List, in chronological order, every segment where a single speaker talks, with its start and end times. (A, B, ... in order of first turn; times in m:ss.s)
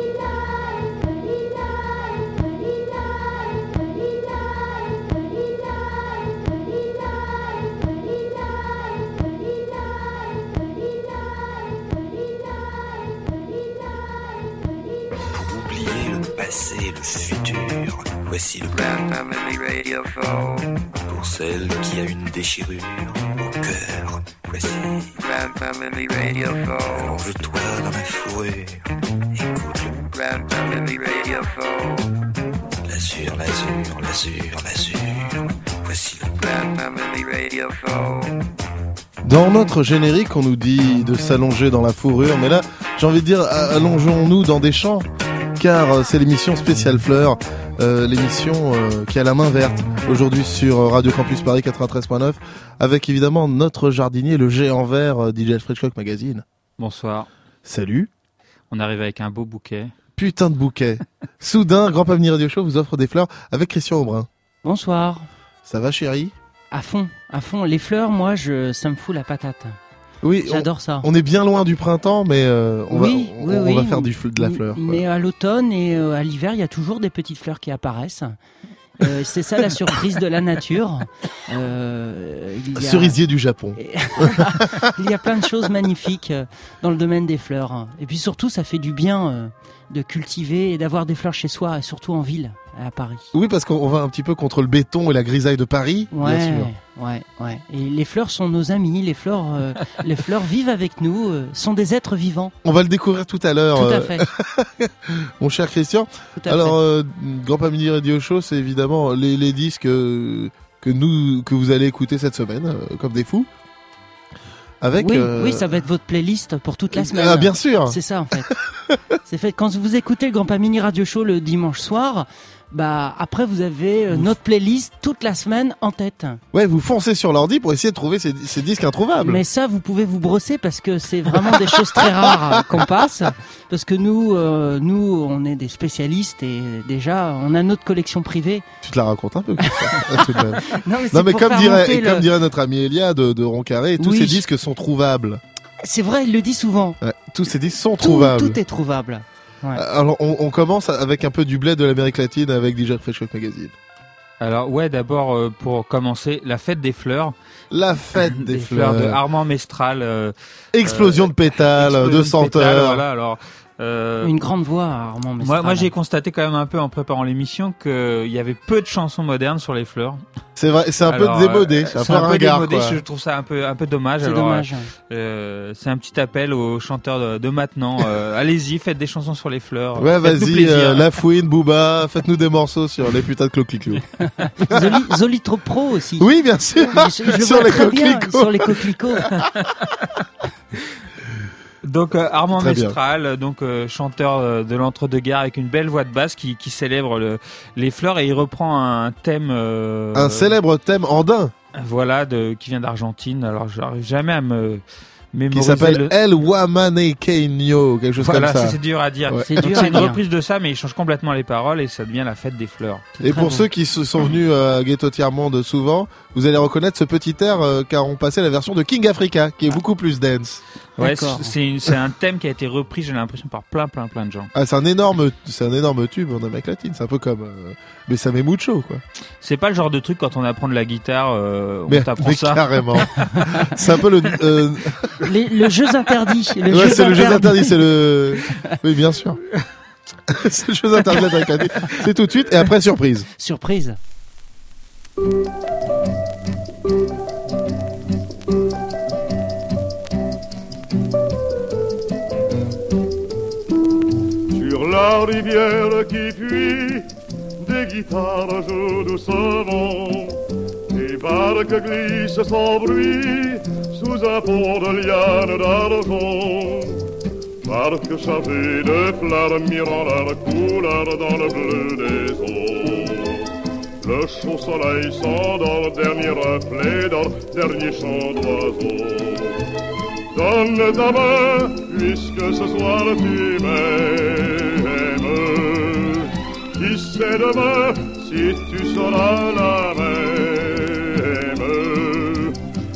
0:15.3-0:19.4 A
0:21.1-0:25.4 A
0:25.9-0:28.8 A
0:29.3-0:31.5 A
0:32.8-0:37.0 A
0:39.2-0:56.4 B
0:56.8-0:57.3 C
0:57.6-0:58.1 B
0:58.7-0:59.9 C
1:00.2-1:04.3 B
1:04.6-1:05.3 D
1:05.6-1:06.3 B
1:06.7-1:09.8 D
1:10.2-1:15.0 B
1:10.4-1:11.1 D
1:12.9-1:18.4 D
1:19.0-1:23.2 D
1:22.8-1:24.6 B
1:23.8-1:33.3 D
1:33.3-1:36.7 B
1:36.1-1:42.5 D
1:42.6-1:53.5 B
1:43.7-1:44.2 D
1:46.4-1:46.8 D
1:54.8-1:55.8 B
1:55.0-1:58.5 D
1:56.9-1:58.0 B
1:58.5-1:59.0 B
1:59.2-2:06.4 D
2:06.5-2:09.4 B
2:09.2-2:18.6 D
2:11.4-2:12.0 B
2:18.8-2:25.4 B
2:20.1-2:22.3 D
2:24.0-2:24.4 D
2:25.8-2:27.0 D
2:27.0-2:28.6 B
2:28.0-2:29.8 D
2:29.7-2:33.7 B
2:34.4-2:37.3 C
2:37.7-2:39.2 B
2:38.2-2:44.3 C
2:40.7-2:43.0 B
2:44.2-2:45.9 D
2:45.4-2:50.2 C
2:50.6-2:53.0 B
2:51.0-3:01.1 C
2:54.2-2:54.9 D
3:00.0-3:04.0 B
3:04.4-3:09.4 D
3:04.6-3:04.9 B
3:06.2-3:08.9 B
3:11.8-3:20.6 C
3:12.5-3:13.0 B
3:20.1-3:21.5 B
3:21.8-3:24.8 C
3:25.3-3:26.1 C
3:25.5-3:30.1 B
3:28.2-3:33.1 C
3:29.5-3:30.2 D
3:33.2-3:40.6 B
3:33.3-3:33.6 D
3:41.0-3:41.5 D
3:41.0-3:44.5 C
3:44.5-3:49.0 B
3:49.4-3:53.1 C
3:51.9-3:55.1 B
3:55.2-3:57.8 D
3:56.7-3:59.4 B
4:00.3-4:03.3 B
4:03.4-4:04.0 D
4:14.5-4:17.0 E
4:17.6-4:20.4 E
4:20.9-4:27.0 E
4:27.6-4:33.5 E
4:34.0-4:39.6 E
4:40.3-4:52.6 E